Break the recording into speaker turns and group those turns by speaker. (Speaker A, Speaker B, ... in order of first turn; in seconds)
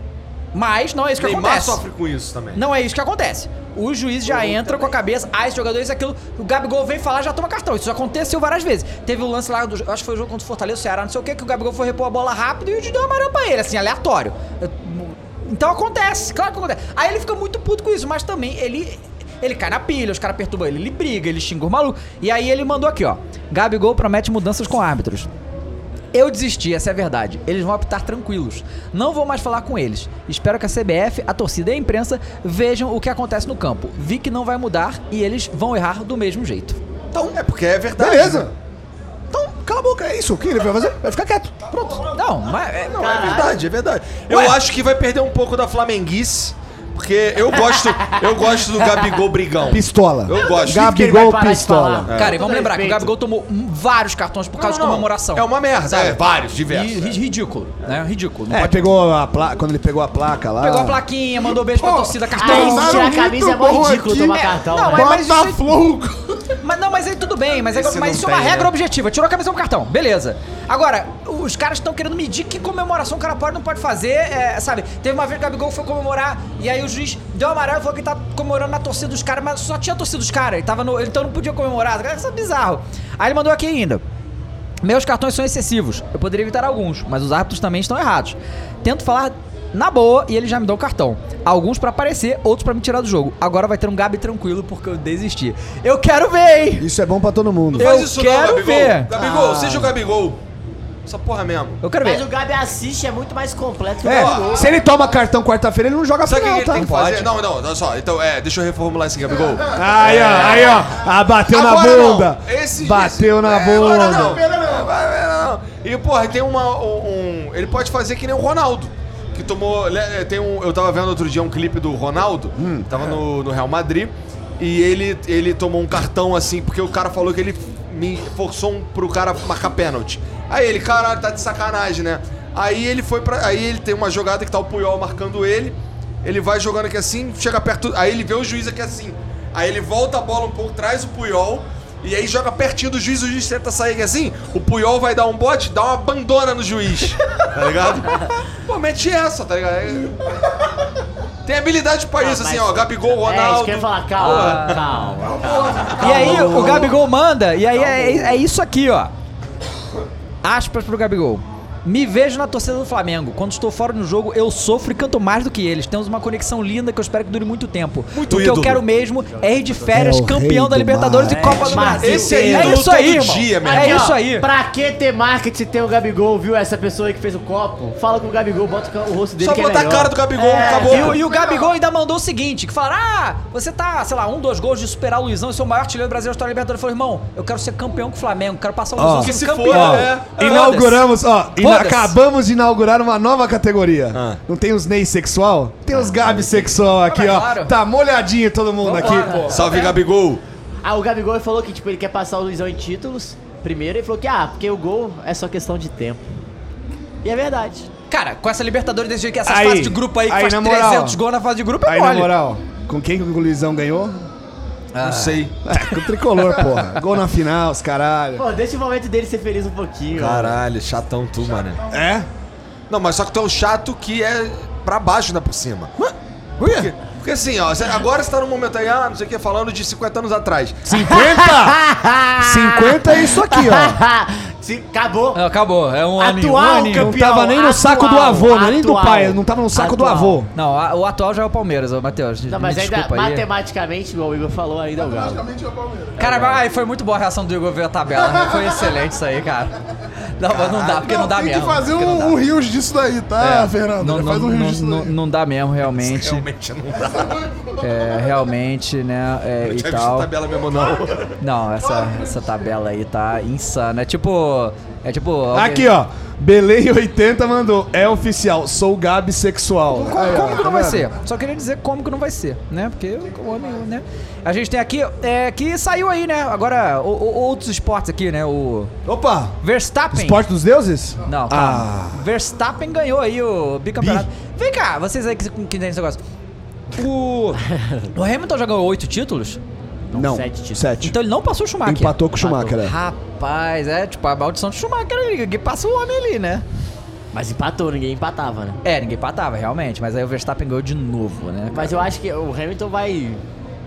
Speaker A: 0.5-1.8, 2.5-25.3, 26.1-36.8, 42.1-43.2, 44.3-44.6, 52.1-56.2, 56.7-58.8, 60.6-63.1, 64.3-65.6, 66.6-84.0, 84.8-96.9, 97.8-99.1, 101.8-102.2, 106.7-107.3, 154.2-155.2, 156.0-159.1, 160.4-174.5, 180.6-192.2, 196.0-197.7, 198.8-199.9, 208.1-212.3, 214.9-215.4, 235.3-237.1, 240.5-243.4, 246.2-249.7, 250.4-252.4, 253.4-256.4, 257.8-260.3, 261.4-265.9, 270.0-278.9, 279.6-280.4, 281.3-286.2, 286.9-287.6, 288.1-289.6, 291.0-296.6, 298.8-302.0
Speaker B: 1.2-2.6, 37.1-38.5, 42.9-50.9, 52.1-52.4, 54.6-57.1, 67.8-68.4, 97.7-100.4, 101.0-101.8, 104.0-104.7, 106.2-110.9, 111.5-150.2, 151.4-154.8, 155.7-156.8, 168.1-168.8, 171.8-174.1, 179.4-181.2, 189.2-190.4, 194.1-194.4, 199.5-200.4, 215.0-215.6, 220.1-221.8, 222.9-225.9, 226.6-230.8, 250.5-251.1, 255.8-257.4, 259.6-261.3
Speaker C: 4.3-4.9, 42.9-43.6, 47.6-48.2, 48.8-49.2, 50.3-53.1, 62.4-65.1, 102.0-104.7, 152.2-156.9, 157.6-158.4, 169.3-169.8, 171.2-172.8, 173.6-181.2, 198.9-199.9, 200.8-206.2, 207.2-207.9, 218.4-220.6, 231.0-235.4, 236.2-240.4, 242.5-245.4, 246.2-246.6, 287.8-288.1, 290.1-290.9, 297.3-298.8, 301.7-303.4
Speaker D: 38.0-38.5, 39.3-42.0, 49.7-52.1, 58.5-61.0, 67.8-68.7, 96.8-97.9, 99.2-99.7, 104.0-107.0, 109.7-114.4, 122.5-122.9, 169.9-172.1, 189.0-199.6, 209.4-211.2, 211.8-214.2, 215.6-218.4, 221.9-222.3, 226.0-226.9, 230.8-231.8, 232.4-234.0, 236.6-240.5, 265.5-271.1, 279.0-279.5, 280.1-282.2, 284.0-284.2, 290.1-291.1, 291.8-292.9
Speaker E: 61.4-66.5, 109.3-110.8, 113.5-114.9, 155.2-156.8, 181.2-181.7, 244.9-246.3, 248.2-248.9, 251.0-255.1, 257.0-258.2, 260.8-261.1, 261.8-262.7, 269.9-270.6